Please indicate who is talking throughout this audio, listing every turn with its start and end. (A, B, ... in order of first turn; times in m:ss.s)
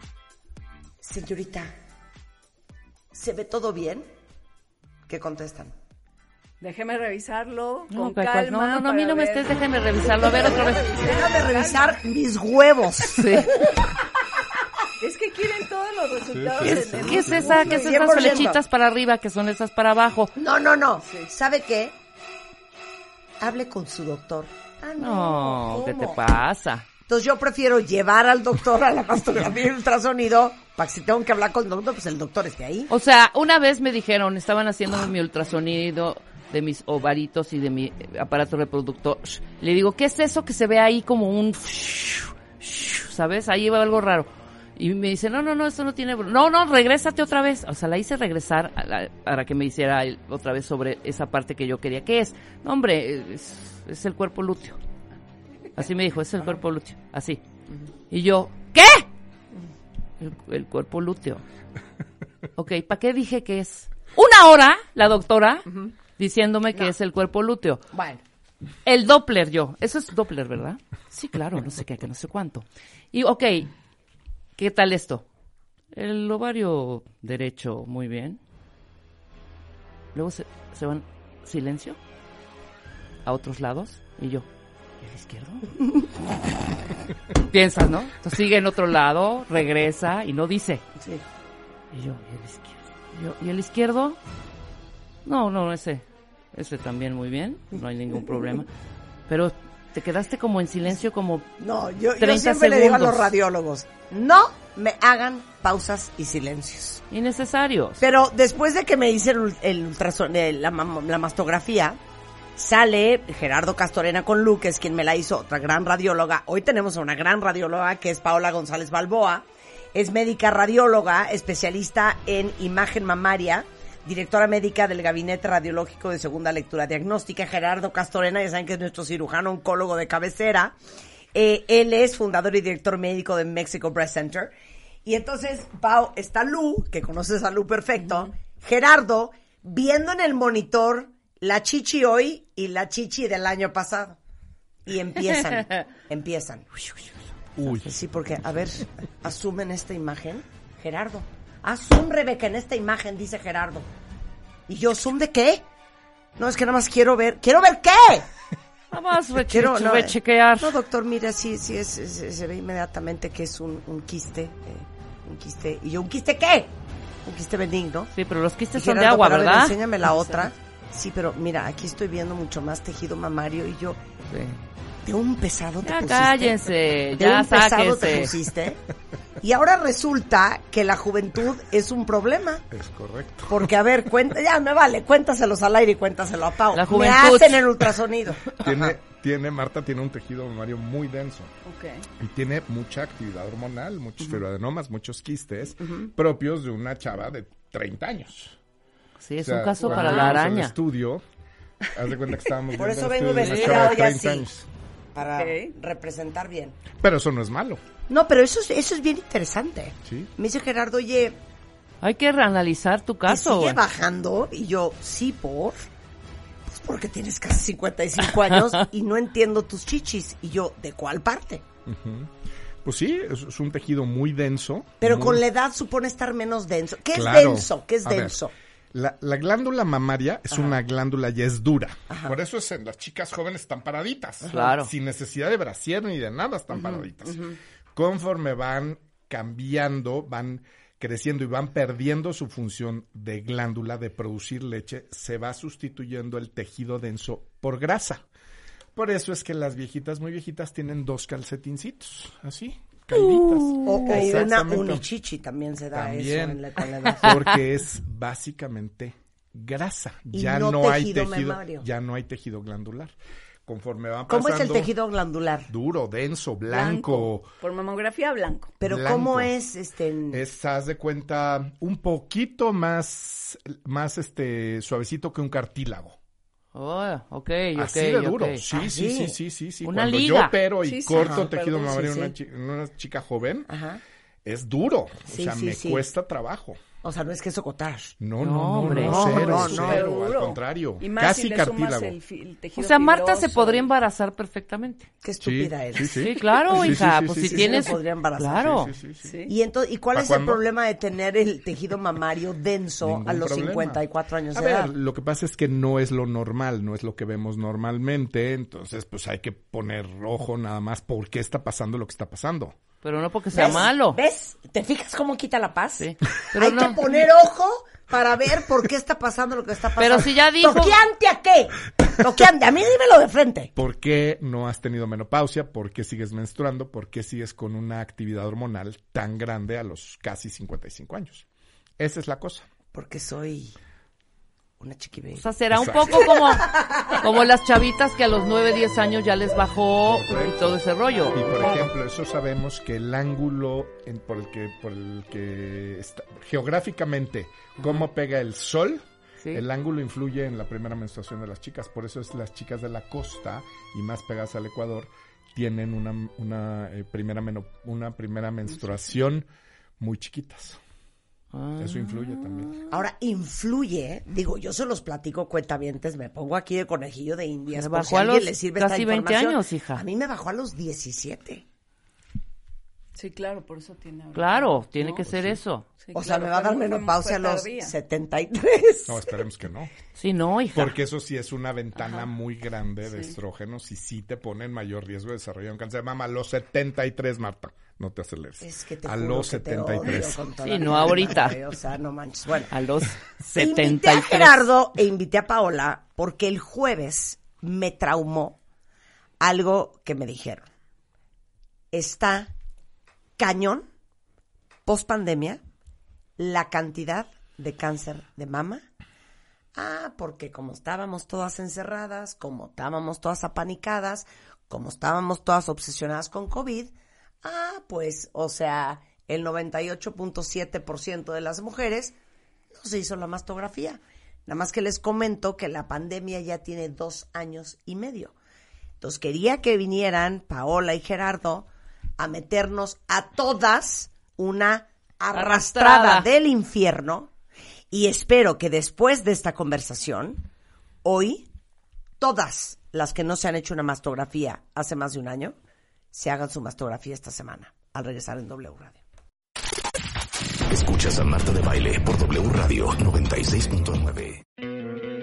0:01.0-0:01.7 A
0:03.1-0:04.1 A
0:05.1-0:05.7 A
0:06.6-0:12.0 B
0:07.9-0:10.9 C
0:10.4-0:13.7 A
0:13.1-0:13.6 C
0:15.0-0:18.2 B
0:16.3-0:17.8 D
0:16.6-0:20.3 C
0:17.6-0:18.6 A
0:20.4-0:21.9 A
0:21.0-0:21.3 B
0:23.4-0:26.2 A
0:25.0-0:26.9 C
0:27.1-0:32.9 A
0:32.9-0:54.8 C
0:55.7-0:57.4 C
0:58.1-0:59.1 C
1:00.2-1:01.4 C
1:02.6-1:05.6 C
1:06.2-1:07.8 C
1:07.9-1:08.2 A
1:08.8-1:13.7 C
1:14.6-1:15.2 C
1:15.9-1:18.4 C
1:20.1-1:22.0 C
1:23.2-1:24.5 C
1:25.0-1:25.7 C
1:27.3-1:30.8 C
1:31.9-1:34.2 C
1:35.2-1:38.7 C
1:39.3-1:41.4 C
1:41.6-1:47.0 A
1:42.2-1:43.3 C
1:47.1-1:48.0 C
1:48.0-1:52.0 A
1:52.6-2:10.7 A
2:11.3-2:14.5 A
2:15.0-2:24.2 A
2:24.9-2:26.7 A
2:27.6-2:27.9 D
2:27.8-2:33.8 A
2:34.7-2:35.6 A
2:36.4-2:38.3 A
2:38.9-2:40.8 C
2:39.5-2:46.7 A
2:47.2-2:48.1 A
2:48.1-2:49.8 C
2:48.7-2:54.0 A
2:50.1-2:50.5 B
2:54.3-2:54.6 C
2:55.0-2:56.6 A
2:55.8-2:58.4 C
2:57.2-2:58.8 A
2:59.4-3:02.6 A
3:02.7-3:03.7 D
3:03.5-3:09.0 A
3:06.7-3:07.7 C
3:08.6-3:11.5 D
3:11.6-3:12.0 B
3:12.2-3:18.6 D
3:19.2-3:20.7 C
3:19.4-3:21.2 D
3:19.8-3:20.2 B
3:21.9-3:24.6 D
3:22.7-3:24.5 A
3:23.4-3:24.0 C
3:25.1-3:26.8 A
3:25.4-3:25.7 B
3:27.0-3:27.8 D
3:28.1-3:31.4 A
3:32.0-3:33.8 C
3:33.3-3:35.8 A
3:36.7-3:41.6 A
3:41.8-3:42.3 D
3:42.8-3:45.4 D
3:45.0-3:48.5 A
3:47.1-3:48.4 D
3:48.9-4:08.2 D
3:50.5-3:50.8 A
3:52.1-3:52.4 A
3:54.5-3:54.9 C
3:56.7-3:57.0 A
4:08.9-4:15.0 D
4:13.8-4:17.4 A
4:15.9-4:16.6 D
4:17.2-4:23.1 D
4:20.3-4:21.8 A
4:23.6-4:24.9 D
4:24.3-4:25.7 A
4:25.7-4:27.5 D
4:26.7-4:28.8 B
4:28.8-4:30.4 A
4:28.8-4:29.5 D
4:30.3-4:36.2 D
4:36.7-4:38.6 C
4:37.8-4:43.7 D
4:38.7-4:39.4 A
4:39.8-4:40.6 C
4:40.8-4:42.2 B
4:41.1-4:42.3 A
4:43.7-4:44.0 A
4:44.4-4:46.8 D
4:45.3-4:46.0 A
4:47.0-4:48.1 A
4:48.2-4:52.2 D
4:48.4-4:49.6 C
4:48.8-4:50.1 A
4:49.3-4:53.9 B
4:52.8-4:55.1 C
4:55.2-4:58.8 A
4:55.4-4:58.0 D
4:56.2-4:58.9 C
4:58.6-4:59.3 D
4:59.2-4:59.5 B
4:59.5-5:04.9 A
5:00.1-5:00.6 D
5:03.0-5:04.0 D
5:04.5-5:12.8 D
5:13.0-5:14.2 C
5:13.5-5:23.7 A
5:16.0-5:17.0 C
5:20.0-5:21.0 C
5:23.8-5:31.4 D
5:32.0-5:32.6 D
5:32.9-5:33.7 A
5:34.8-5:35.4 A
5:35.4-5:41.9 C
5:35.7-5:36.2 D
5:36.1-5:37.2 A
5:40.1-5:40.8 D
5:41.3-5:59.5 D
5:47.8-5:48.1 C
6:00.0-6:00.8 D
6:01.5-6:02.8 C
6:01.8-6:02.8 D
6:02.9-6:11.6 A
6:07.7-6:10.0 C
6:13.1-6:15.3 B
6:14.3-6:15.9 C
6:15.3-6:15.6 D
6:16.0-6:17.9 B
6:16.1-6:19.4 A
6:19.1-6:19.9 D
6:20.1-6:21.0 C
6:20.7-6:30.4 D
6:23.0-6:23.4 B
6:28.6-6:32.7 A
6:30.6-6:31.6 C
6:32.7-6:34.6 C
6:33.6-6:38.6 A
6:39.4-6:40.7 A
6:41.9-6:42.5 A
6:43.4-6:43.8 A
6:44.8-6:45.6 A
6:46.4-6:48.8 A
6:49.7-7:02.2 A
7:02.7-7:08.3 A
7:09.0-7:11.7 A
7:12.2-7:17.3 A
7:15.3-7:16.3 C
7:17.9-7:20.4 A
7:21.0-7:21.4 A
7:22.2-7:25.6 A
7:26.1-7:29.0 A
7:30.7-7:34.4 E